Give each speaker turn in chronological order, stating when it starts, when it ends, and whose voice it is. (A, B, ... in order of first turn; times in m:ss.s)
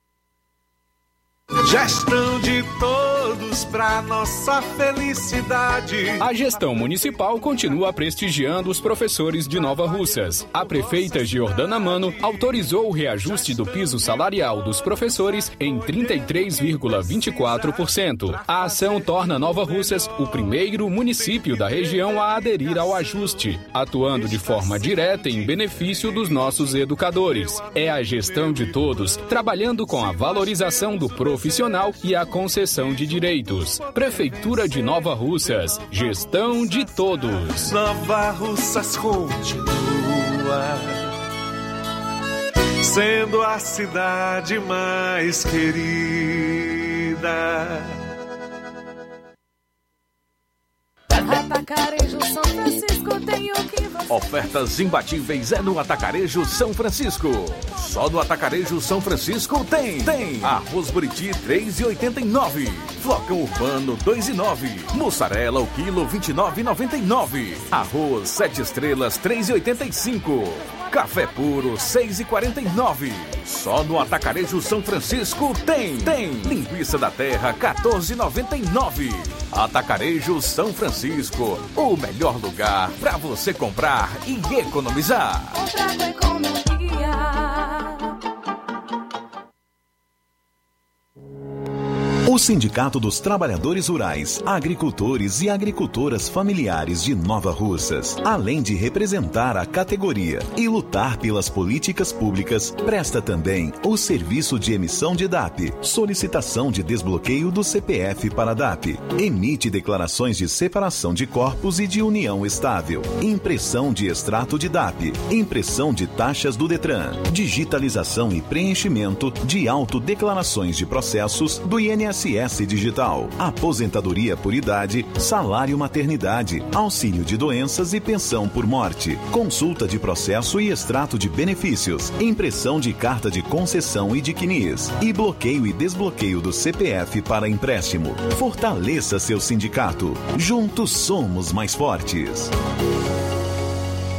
0:01.6-0:07.2 A
0:06.2-0:37.7 B
0:09.5-0:14.3 A
0:15.6-0:20.5 A
0:21.1-0:29.3 A
0:32.5-0:41.0 A
0:42.8-0:48.0 A
0:51.1-0:54.1 C
0:54.1-1:25.6 D
1:25.5-1:28.0 C
1:32.2-2:22.5 E